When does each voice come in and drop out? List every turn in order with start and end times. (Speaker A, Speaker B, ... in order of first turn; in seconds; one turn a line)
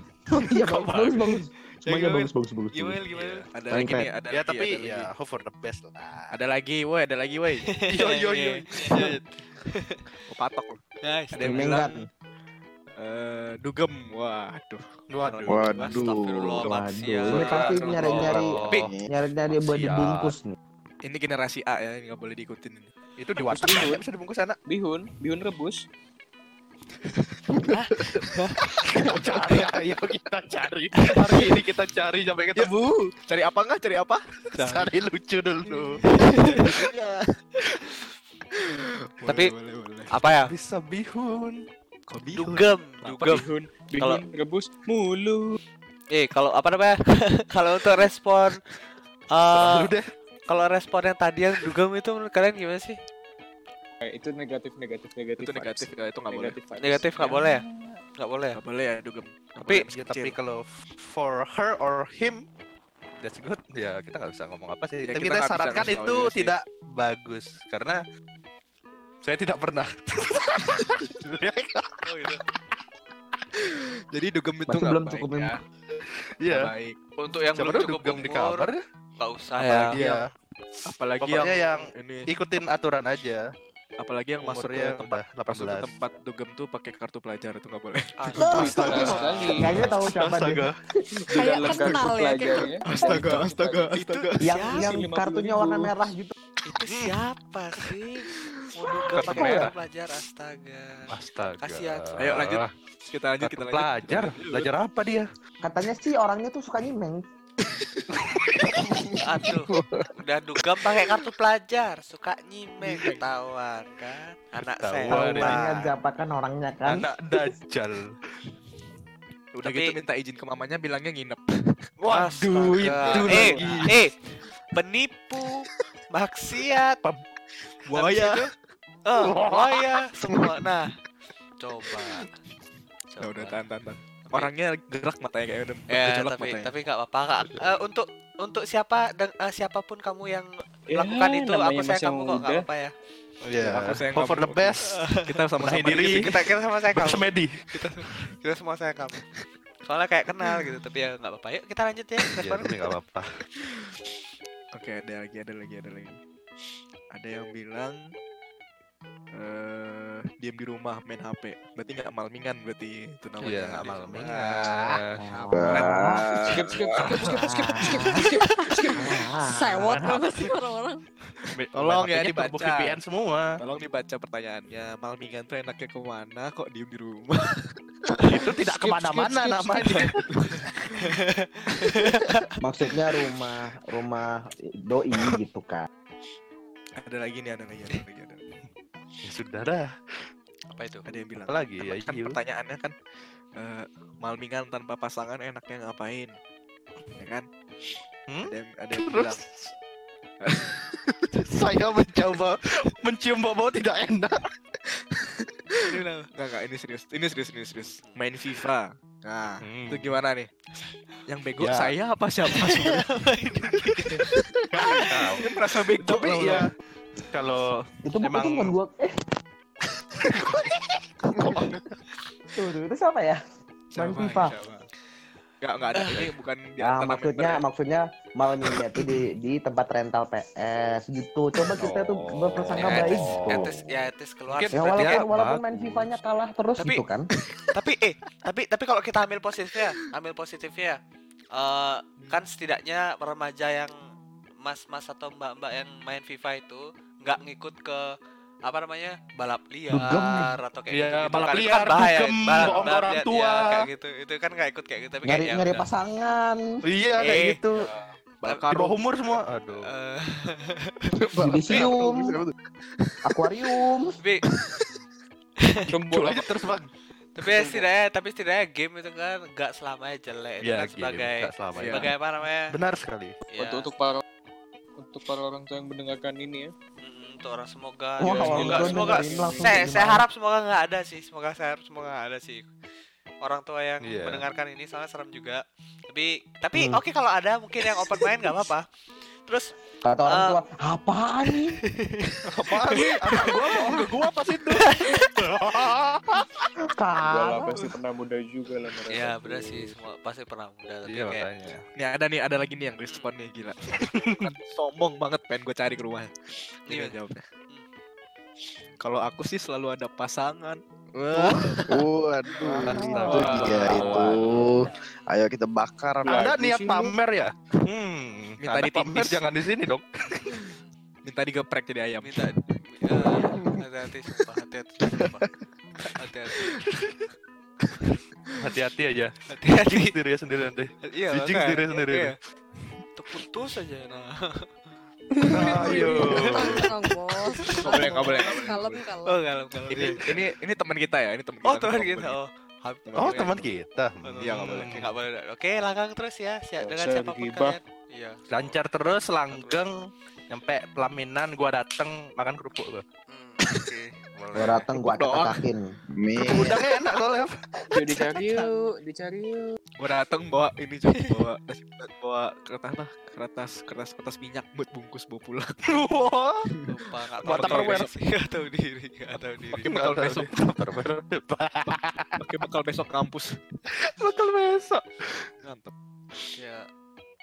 Speaker A: 0.3-3.0
Speaker B: 1.8-2.3
Speaker C: 2.7-3.5
Speaker B: 2.9-5.1
Speaker A: 3.7-4.1
Speaker D: 4.3-6.3
Speaker B: 6.3-7.7
Speaker C: 7.7-10.0
Speaker D: 7.9-9.2
Speaker B: 10.3-10.8
Speaker C: 11.0-11.8
Speaker B: 11.3-12.0
Speaker A: 11.4-12.1
Speaker B: 12.9-16.0
Speaker D: 15.1-15.9
Speaker C: 15.2-18.9
Speaker E: 15.5-16.7
Speaker A: 16.6-20.6
Speaker B: 17.3-18.3
Speaker D: 17.9-18.9
Speaker E: 18.6-19.1
Speaker D: 19.5-20.3
Speaker B: 21.0-22.9
Speaker D: 23.2-24.6
Speaker F: 23.5-24.0
Speaker F: 24.7-25.8
Speaker B: 27.1-28.1
Speaker C: 27.7-28.6
Speaker D: 28.7-32.7
Speaker C: 31.0-31.4
Speaker B: 31.4-31.7
Speaker B: 32.5-34.9
Speaker D: 34.6-36.0
Speaker B: 35.7-36.9
Speaker C: 36.2-36.9
Speaker B: 38.5-40.1
Speaker C: 39.2-39.5
Speaker C: 40.1-40.5
Speaker D: 40.5-41.6
Speaker B: 42.1-43.5
Speaker C: 42.4-43.4
Speaker F: 43.3-45.6
Speaker C: 44.0-44.2
Speaker C: 46.1-48.6
Speaker C: 49.3-49.9
Speaker D: 49.5-50.1
Speaker C: 50.5-53.0
Speaker F: 54.0-57.4
Speaker B: 55.4-56.6
Speaker C: 56.8-58.6
Speaker B: 58.5-60.4
Speaker D: 59.6-62.4
Speaker D: 63.2-68.0
Speaker B: 65.0-66.5
Speaker D: 69.2-72.4
Speaker C: 72.0-72.4
Speaker B: 73.6-75.6
Speaker A: 74.7-75.5
Speaker D: 76.4-76.7
Speaker B: 76.5-77.0
Speaker C: 77.2-80.0
Speaker D: 77.6-78.8
Speaker B: 79.6-80.2
Speaker D: 79.9-80.2
Speaker B: 80.9-82.3
Speaker D: 81.2-83.4
Speaker B: 84.0-89.8
Speaker D: 84.4-85.9
Speaker C: 88.2-89.5
Speaker D: 88.3-90.7
Speaker A: 88.4-90.7
Speaker F: 88.4-89.8
Speaker G: 91.3-92.9
Speaker F: 91.3-93.9
Speaker B: 91.5-94.5
Speaker C: 93.9-94.9
Speaker A: 94.4-96.3
Speaker F: 94.6-96.0
Speaker C: 96.6-102.3
Speaker D: 99.1-99.7
Speaker A: 99.2-99.7
Speaker D: 101.1-102.7
Speaker B: 102.2-104.7
Speaker D: 103.4-105.3
Speaker A: 105.6-107.2
Speaker B: 107.6-108.0
Speaker D: 108.2-108.8
Speaker B: 108.6-110.1
Speaker C: 109.2-115.9
Speaker B: 112.8-113.2
Speaker D: 114.8-115.6
Speaker A: 115.1-117.1
Speaker D: 116.8-118.1
Speaker B: 119.5-121.4
Speaker C: 119.6-120.0
Speaker D: 122.0-123.9
Speaker C: 122.1-124.1
Speaker B: 122.7-124.0
Speaker C: 124.7-127.0
Speaker B: 127.8-128.4
Speaker C: 127.9-128.5
Speaker C: 129.0-130.9
Speaker D: 129.2-129.8
Speaker C: 131.6-132.3
Speaker C: 133.1-133.6
Speaker B: 133.2-136.7
Speaker C: 135.9-142.9
Speaker F: 140.9-142.7
Speaker D: 143.4-144.8
Speaker B: 143.6-146.3
Speaker C: 144.8-145.2
Speaker D: 145.6-146.3
Speaker C: 146.0-149.2
Speaker D: 146.9-147.7
Speaker C: 149.9-152.9
Speaker D: 152.3-153.4
Speaker B: 153.7-153.9
Speaker B: 154.7-156.2
Speaker B: 157.1-158.0
Speaker B: 159.3-165.0
Speaker C: 163.4-164.2
Speaker D: 163.4-166.0
Speaker A: 165.2-166.2
Speaker E: 165.5-166.6
Speaker B: 166.1-166.9
Speaker F: 166.3-169.0
Speaker D: 167.1-168.0
Speaker A: 167.1-168.2
Speaker G: 168.6-171.0
Speaker A: 169.0-169.9
Speaker D: 169.7-170.5
Speaker D: 171.5-173.5
Speaker B: 171.7-173.0
Speaker B: 173.6-178.2
Speaker D: 178.2-180.2
Speaker F: 178.8-179.8
Speaker B: 179.8-180.8
Speaker C: 180.9-182.4
Speaker A: 182.6-184.3
Speaker A: 184.8-185.8
Speaker B: 187.0-188.4
Speaker D: 189.2-189.8
Speaker C: 190.7-191.1
Speaker B: 191.1-192.9
Speaker D: 191.5-192.3
Speaker B: 193.6-196.3
Speaker B: 197.2-197.5
Speaker D: 198.3-199.7
Speaker B: 198.5-199.4
Speaker B: 200.4-201.4
Speaker D: 201.4-204.5
Speaker B: 204.9-210.5
Speaker C: 205.9-206.3
Speaker C: 207.8-208.2
Speaker D: 209.6-210.2
Speaker B: 211.3-213.1
Speaker D: 211.6-211.9
Speaker C: 212.5-215.4
Speaker B: 214.0-214.4
Speaker D: 214.7-216.7
Speaker B: 214.9-216.7
Speaker D: 217.3-218.7
Speaker A: 218.0-219.2
Speaker D: 220.2-222.0
Speaker A: 222.6-223.4
Speaker A: 223.9-224.5
Speaker B: 223.9-224.9
Speaker B: 225.6-227.6
Speaker C: 225.9-226.3
Speaker A: 226.8-233.7
Speaker D: 231.8-233.7
Speaker C: 232.8-235.2
Speaker D: 234.5-236.1
Speaker A: 234.7-237.3
Speaker C: 236.8-237.0
Speaker C: 237.7-241.0
Speaker C: 241.5-243.9
Speaker C: 244.6-248.1
Speaker C: 248.6-255.8
Speaker A: 249.9-250.5
Speaker D: 250.1-253.7
Speaker A: 255.2-256.6
Speaker D: 256.8-257.9
Speaker C: 257.2-257.6
Speaker B: 258.4-259.0
Speaker D: 258.4-259.9
Speaker C: 259.9-260.9
Speaker E: 261.2-262.5
Speaker A: 261.4-262.4
Speaker A: 263.2-264.2
Speaker F: 265.9-266.6
Speaker D: 266.1-266.9
Speaker C: 267.4-272.7
Speaker F: 267.5-267.8
Speaker D: 270.6-272.1
Speaker B: 271.7-272.1
Speaker D: 272.7-273.4
Speaker C: 273.5-273.9
Speaker F: 273.6-274.2
Speaker F: 275.0-276.7
Speaker C: 277.0-282.7
Speaker A: 278.2-280.2
Speaker F: 278.3-279.8
Speaker D: 278.4-278.8
Speaker C: 283.4-288.8
Speaker D: 284.0-284.4
Speaker C: 289.4-289.7
Speaker A: 290.0-291.8
Speaker C: 290.3-290.6
Speaker C: 292.0-294.1
Speaker D: 292.4-296.7
Speaker C: 294.8-295.2
Speaker A: 296.8-297.8
Speaker F: 297.2-299.9
Speaker C: 299.1-301.4
Speaker D: 301.1-301.8
Speaker B: 302.0-306.3
Speaker D: 304.0-304.5
Speaker B: 306.9-307.4
Speaker C: 306.9-307.1
Speaker B: 309.0-312.0
Speaker C: 311.5-311.8
Speaker E: 311.9-316.5
Speaker A: 312.7-314.8
Speaker D: 312.8-314.5
Speaker B: 313.2-314.2
Speaker C: 314.9-315.3
Speaker F: 316.2-317.1
Speaker D: 316.2-320.7
Speaker B: 318.6-319.4
Speaker B: 321.2-322.5
Speaker C: 322.2-325.4
Speaker B: 326.0-326.6
Speaker C: 326.2-326.8
Speaker D: 328.6-332.3
Speaker C: 329.5-330.1
Speaker C: 331.0-332.4
Speaker C: 333.1-334.7
Speaker G: 335.3-339.4
Speaker D: 335.4-336.9
Speaker C: 335.5-336.9
Speaker C: 337.6-340.3
Speaker B: 337.7-339.0
Speaker B: 339.9-342.4
Speaker C: 341.6-343.7
Speaker B: 343.1-343.5
Speaker D: 343.1-345.1
Speaker C: 344.2-348.8
Speaker B: 344.4-345.0
Speaker F: 346.8-347.8
Speaker D: 348.5-353.0
Speaker C: 349.5-349.8
Speaker C: 353.3-354.8
Speaker D: 354.4-354.7
Speaker A: 354.5-355.9
Speaker B: 354.9-355.6
Speaker E: 356.1-356.8
Speaker D: 356.4-358.6
Speaker F: 357.9-359.8
Speaker B: 360.0-365.7
Speaker C: 361.2-361.4
Speaker D: 365.9-366.6
Speaker C: 366.9-369.9
Speaker D: 367.4-368.1
Speaker B: 367.4-368.1
Speaker D: 369.7-372.4
Speaker B: 369.8-370.8
Speaker B: 372.4-373.6
Speaker D: 373.9-375.5
Speaker B: 375.6-375.9
Speaker C: 376.6-376.8